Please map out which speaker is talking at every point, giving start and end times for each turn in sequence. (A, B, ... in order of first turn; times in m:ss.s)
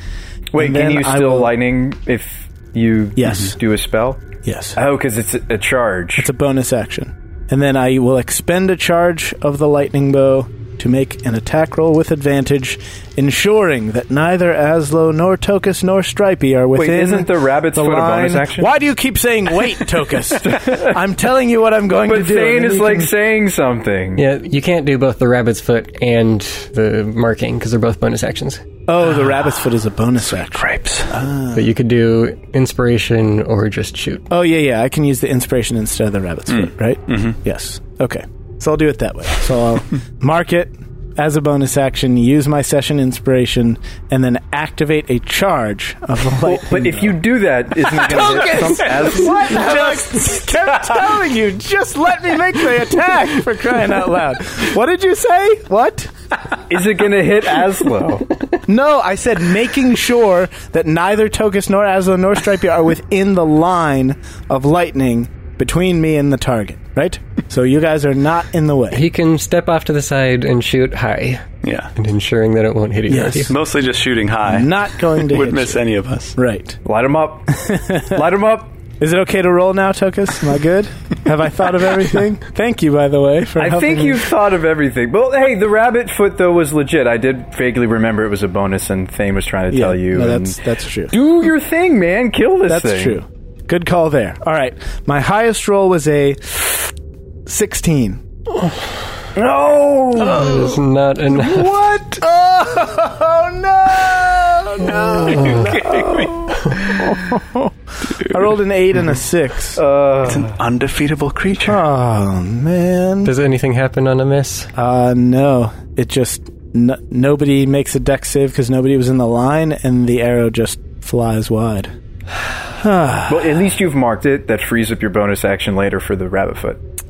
0:00.5-0:06.3 A
0:00.6-0:01.5 B
0:03.2-0:03.6 B
0:04.4-0:04.8 B
0:06.2-0:23.1 B
0:16.8-0:18.7 A
0:20.4-0:21.0 A
0:22.1-0:24.2 A
0:24.2-0:28.6 C
0:28.9-0:31.7 B
0:30.4-0:31.1 D
0:31.5-0:34.3 C
0:34.3-0:47.2 B
0:36.5-0:37.4 D
0:46.4-0:49.8 A
0:47.9-0:56.1 B
0:48.3-0:48.6 D
0:49.3-0:49.9 D
0:56.7-0:58.3 A
0:58.7-1:09.0 B
1:08.9-1:11.4 C
1:11.6-1:11.9 D
1:12.0-1:13.6 C
1:13.1-1:13.6 B
1:13.5-1:16.4 D
1:14.4-1:15.8 B
1:16.4-1:16.8 B
1:16.8-1:18.7 A
1:17.5-1:18.2 B
1:19.0-1:24.3 B
1:23.6-1:33.2 A
1:29.7-1:31.2 B
1:32.7-1:36.9 B
1:37.5-1:38.2 B
1:39.4-1:40.8 A
1:40.2-1:41.8 C
1:41.5-1:42.2 A
1:41.6-1:49.8 B
1:45.2-1:45.8 C
1:45.4-1:47.1 D
1:49.8-1:50.6 A
1:50.2-1:51.8 D
1:51.6-1:53.3 B
1:53.2-1:54.7 C
1:54.8-2:01.9 B
2:02.7-2:03.6 B
2:03.3-2:06.8 A